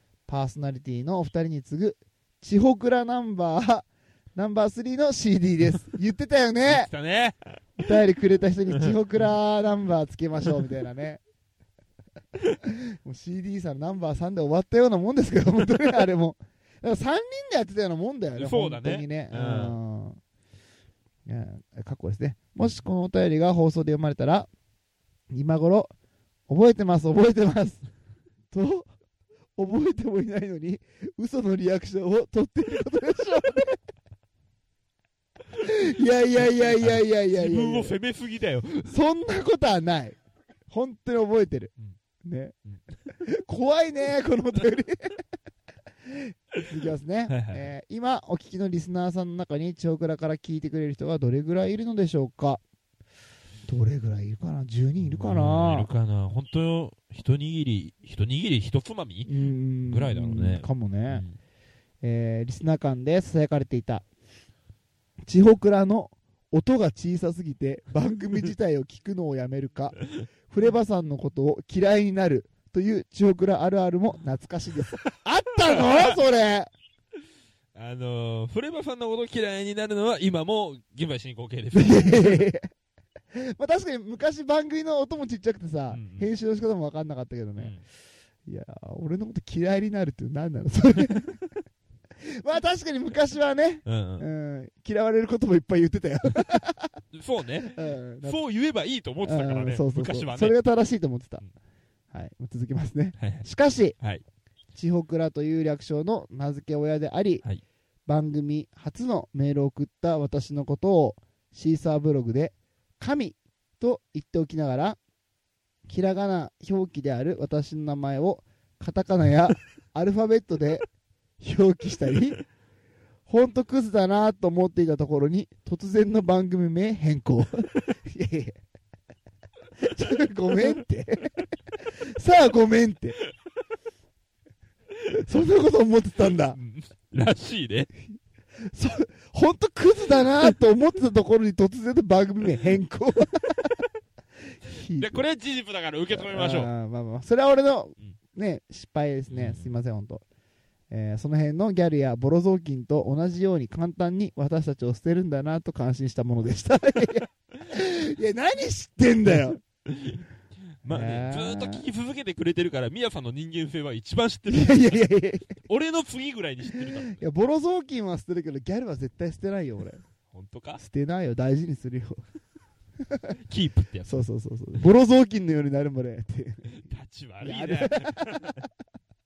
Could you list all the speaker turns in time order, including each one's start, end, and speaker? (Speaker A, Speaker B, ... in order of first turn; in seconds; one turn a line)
Speaker A: 0.3-6.9
Speaker B: 6.7-7.4
Speaker A: 7.8-11.2
Speaker A: 12.6-20.2
Speaker B: 18.3-19.8
Speaker A: 21.3-24.5
Speaker A: 25.3-25.9
Speaker A: 26.5-27.8
Speaker A: 28.5-28.9
Speaker A: 29.6-33.8
Speaker A: 35.6-37.9
Speaker B: 36.3-38.9
Speaker A: 38.9-40.2
Speaker A: 40.7-41.7
Speaker A: 42.2-42.5
Speaker A: 43.2-45.2
Speaker A: 46.1-52.6
Speaker B: 47.3-47.7
Speaker A: 53.7-55.9
Speaker B: 55.0-61.4
Speaker A: 59.3-61.2
Speaker A: 62.0-64.0
Speaker A: 65.3-76.7
Speaker B: 75.8-76.2
Speaker B: 77.8-82.5
Speaker A: 81.8-82.7
Speaker A: 83.3-87.8
Speaker B: 85.9-86.3
Speaker B: 87.6-87.8
Speaker A: 88.5-91.3
Speaker A: 92.4-97.0
Speaker B: 93.8-94.3
Speaker B: 97.1-100.6
Speaker A: 97.7-98.4
Speaker A: 99.2-101.4
Speaker A: 102.1-104.0
Speaker B: 103.2-103.5
Speaker A: 104.8-107.5
Speaker A: 108.1-115.0
Speaker A: 115.9-120.8
Speaker A: 121.4-122.4
Speaker A: 123.3-128.6
Speaker A: 129.8-131.4
Speaker A: 132.0-133.2
Speaker A: 135.2-136.6
Speaker B: 136.5-137.9
Speaker A: 138.6-143.5
Speaker A: 144.6-145.2
Speaker B: 145.0-146.7
Speaker A: 146.1-150.2
Speaker B: 149.3-149.7
Speaker A: 150.9-159.6
Speaker B: 159.3-160.2
Speaker B: 160.8-165.0
Speaker A: 160.9-161.8
Speaker A: 164.5-165.6
Speaker B: 165.7-167.2
Speaker A: 166.8-170.0
Speaker B: 170.3-170.8
Speaker A: 170.8-172.2
Speaker B: 173.4-174.3
Speaker A: 174.1-176.8
Speaker B: 176.7-178.6
Speaker A: 177.4-178.5